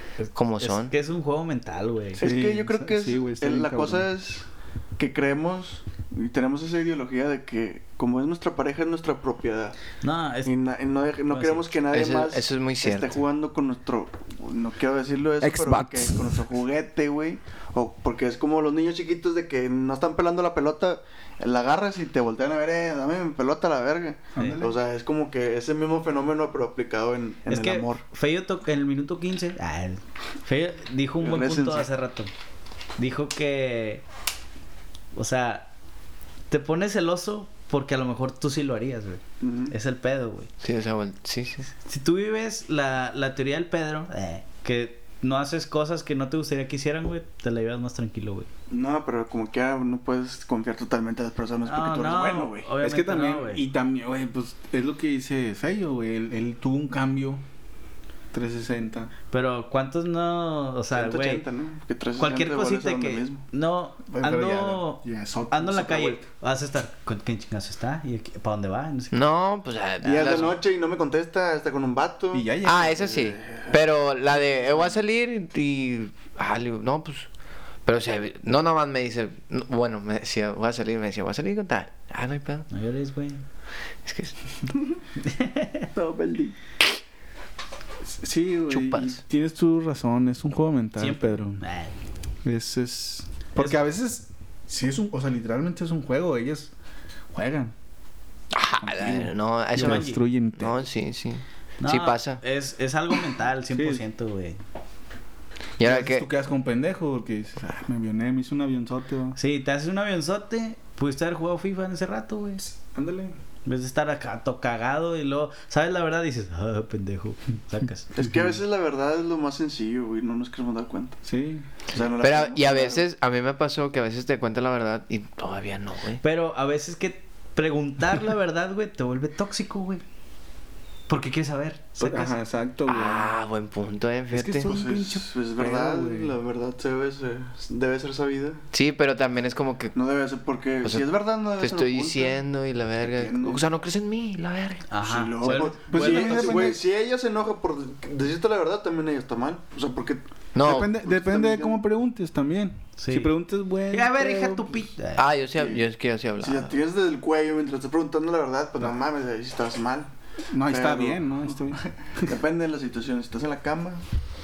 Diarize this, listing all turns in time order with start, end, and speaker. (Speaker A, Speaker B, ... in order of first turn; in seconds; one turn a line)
Speaker A: 0.2-2.2
Speaker B: 0.3-0.9
Speaker C: 2.2-4.1
Speaker D: 2.2-4.5
Speaker D: 5.0-9.8
Speaker A: 10.0-10.5
Speaker D: 10.4-28.0
Speaker A: 11.3-11.7
Speaker B: 11.9-13.1
Speaker C: 15.5-15.8
Speaker C: 24.4-24.8
Speaker A: 27.5-32.3
Speaker D: 31.2-31.9
Speaker A: 33.0-34.0
Speaker A: 35.1-35.7
Speaker A: 36.5-40.5
Speaker D: 39.4-39.7
Speaker B: 40.6-41.7
Speaker A: 41.8-48.5
Speaker D: 48.7-52.7
Speaker A: 51.7-53.6
Speaker C: 52.8-57.4
Speaker C: 58.3-59.1
Speaker A: 59.3-61.4
Speaker D: 60.9-63.4
Speaker A: 62.2-69.2
Speaker C: 64.1-66.3
Speaker B: 69.1-70.6
Speaker D: 70.0-73.8
Speaker A: 70.0-70.5
Speaker C: 72.3-73.1
Speaker B: 72.6-77.3
Speaker B: 77.8-82.7
Speaker A: 82.7-83.4
Speaker B: 84.0-84.3
Speaker A: 85.2-85.9
Speaker D: 86.0-86.5
Speaker C: 88.0-91.6
Speaker B: 88.7-89.2
Speaker A: 91.0-92.0
Speaker C: 92.4-96.7
Speaker C: 97.3-97.7
Speaker B: 98.5-102.4
Speaker C: 98.8-100.8
Speaker A: 99.8-100.2
Speaker A: 101.8-104.6
Speaker C: 103.7-104.0
Speaker B: 105.8-106.3
Speaker C: 105.8-109.4
Speaker A: 109.4-112.7
Speaker C: 112.8-113.3
Speaker A: 113.7-118.1
Speaker D: 118.1-121.2
Speaker C: 121.2-121.7
Speaker D: 121.9-123.0
Speaker B: 122.2-126.2
Speaker A: 126.2-130.0
Speaker A: 131.1-132.4
Speaker C: 132.0-133.3
Speaker B: 132.9-134.7
Speaker C: 134.3-136.4
Speaker D: 134.6-138.6
Speaker B: 138.7-139.9
Speaker D: 139.9-142.4
Speaker B: 141.6-144.9
Speaker D: 143.0-143.6
Speaker A: 144.9-146.1
Speaker D: 145.0-151.8
Speaker C: 145.4-146.8
Speaker B: 150.6-150.9
Speaker C: 150.6-154.9
Speaker A: 153.0-153.3
Speaker A: 153.9-155.3
Speaker B: 155.2-156.7
Speaker D: 155.6-155.8
Speaker D: 156.4-160.1
Speaker C: 160.5-162.3
Speaker D: 160.6-164.0